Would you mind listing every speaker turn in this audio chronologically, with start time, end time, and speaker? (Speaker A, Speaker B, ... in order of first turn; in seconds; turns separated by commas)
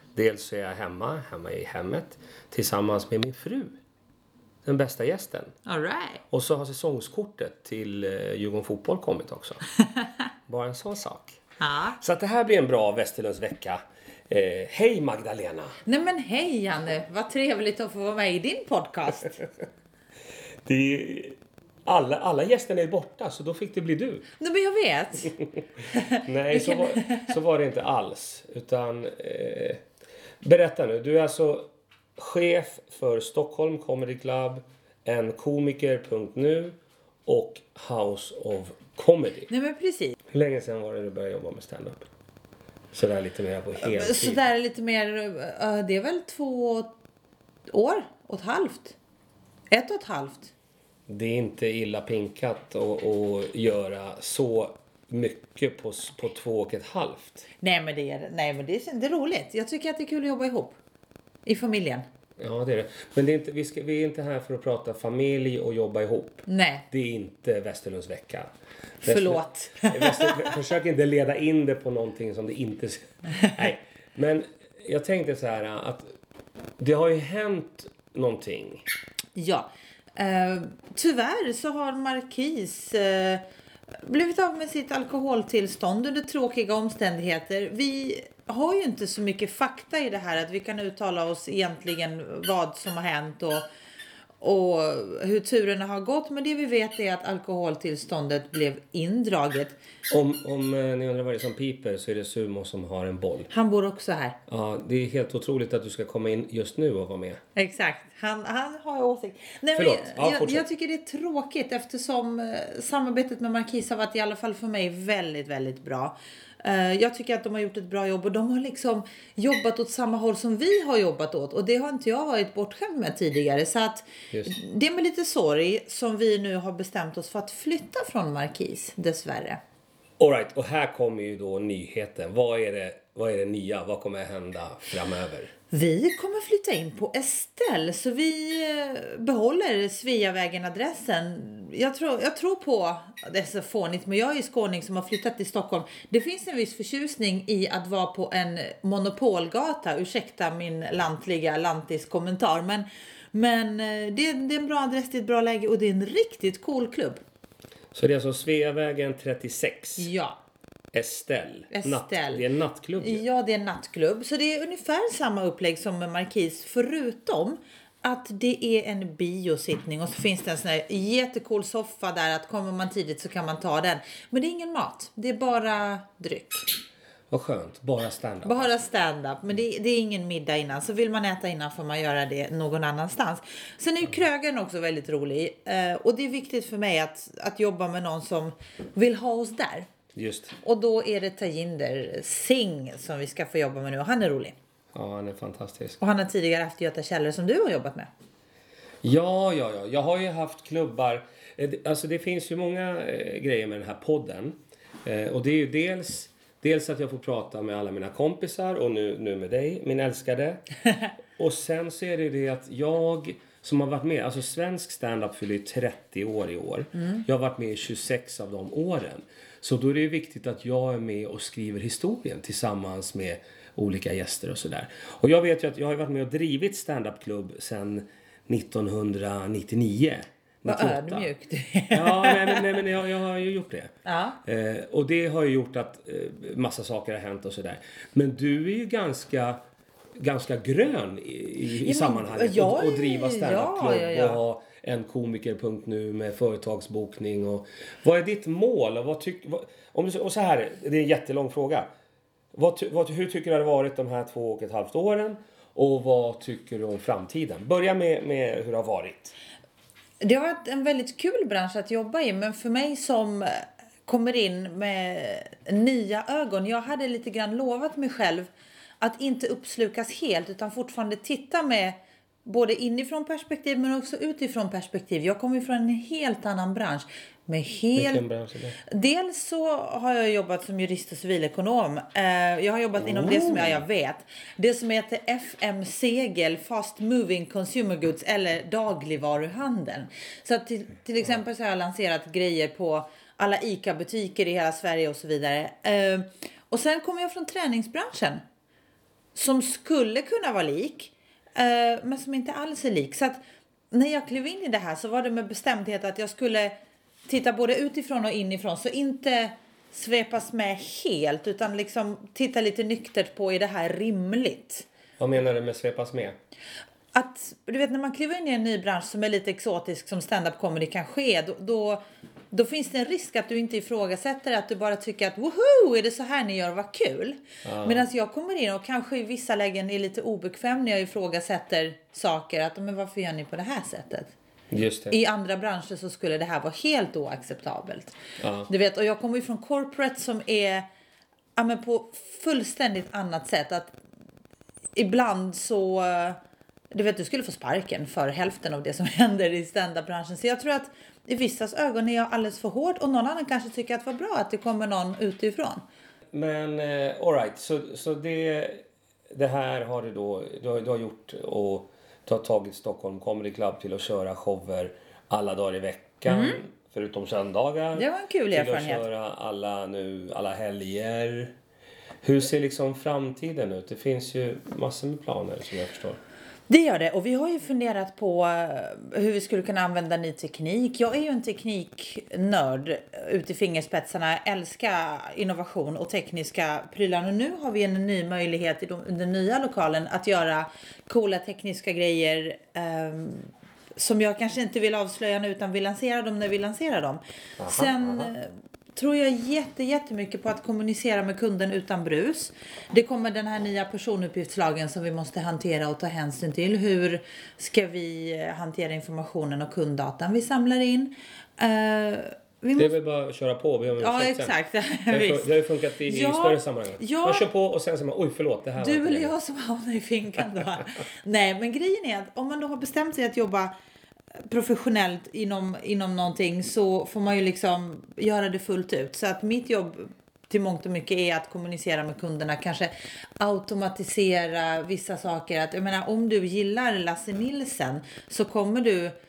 Speaker A: 0.1-3.8, Speaker A: 4.7-5.5, Speaker B: 5.7-6.2, Speaker A: 6.3-9.6, Speaker A: 10.5-11.4, Speaker B: 11.6-12.0, Speaker A: 12.0-15.8, Speaker B: 15.9-19.4, Speaker A: 20.6-24.3, Speaker B: 24.4-25.4, Speaker B: 25.9-27.3, Speaker A: 26.3-29.8, Speaker A: 30.4-39.5, Speaker B: 39.5-40.1, Speaker A: 40.3-42.1, Speaker A: 42.9-44.4, Speaker B: 43.8-46.9, Speaker B: 47.7-49.0, Speaker B: 49.7-50.5, Speaker A: 51.1-57.5, Speaker B: 57.6-60.8, Speaker B: 61.5-62.0, Speaker A: 62.4-76.1, Speaker B: 66.5-66.8, Speaker B: 69.1-70.5, Speaker B: 73.3-73.7, Speaker A: 76.8-78.8, Speaker B: 79.4-83.4, Speaker B: 84.0-93.7, Speaker B: 94.4-99.8, Speaker A: 100.1-103.5, Speaker B: 103.5-104.4, Speaker A: 104.5-107.4, Speaker B: 107.6-129.6, Speaker A: 109.8-110.7, Speaker A: 124.3-124.6, Speaker A: 130.2-135.5, Speaker B: 135.7-157.2, Speaker A: 157.9-160.1, Speaker B: 160.0-160.4, Speaker A: 160.9-163.2, Speaker B: 161.7-162.4, Speaker B: 163.0-176.7, Speaker A: 177.3-178.9, Speaker B: 178.4-189.9, Speaker A: 190.2-190.6, Speaker B: 190.6-194.6, Speaker A: 194.9-196.0, Speaker B: 196.0-198.1, Speaker A: 199.0-210.6, Speaker A: 211.4-231.3, Speaker B: 230.7-232.6, Speaker A: 231.9-233.9, Speaker B: 234.1-234.4, Speaker A: 234.4-239.6, Speaker A: 240.2-251.9, Speaker B: 241.8-244.4, Speaker A: 252.5-259.4, Speaker B: 260.2-278.2, Speaker A: 277.9-278.8, Speaker B: 278.9-298.4, Speaker A: 283.0-283.8, Speaker B: 299.4-306.7, Speaker B: 307.3-314.9, Speaker A: 315.2-316.4, Speaker B: 317.1-322.0, Speaker B: 322.5-334.3, Speaker A: 327.6-328.1, Speaker A: 334.7-335.1, Speaker B: 335.1-338.1, Speaker A: 338.4-338.7, Speaker B: 338.7-340.9, Speaker B: 341.6-343.9, Speaker B: 345.0-346.4, Speaker B: 346.9-355.8, Speaker A: 356.3-371.5, Speaker B: 366.3-366.6, Speaker B: 368.0-369.0, Speaker A: 372.2-376.2, Speaker B: 376.7-412.9, Speaker A: 397.6-398.3, Speaker A: 412.8-414.6, Speaker B: 414.0-417.5, Speaker A: 415.1-419.3, Speaker B: 418.8-423.7, Speaker B: 424.5-439.1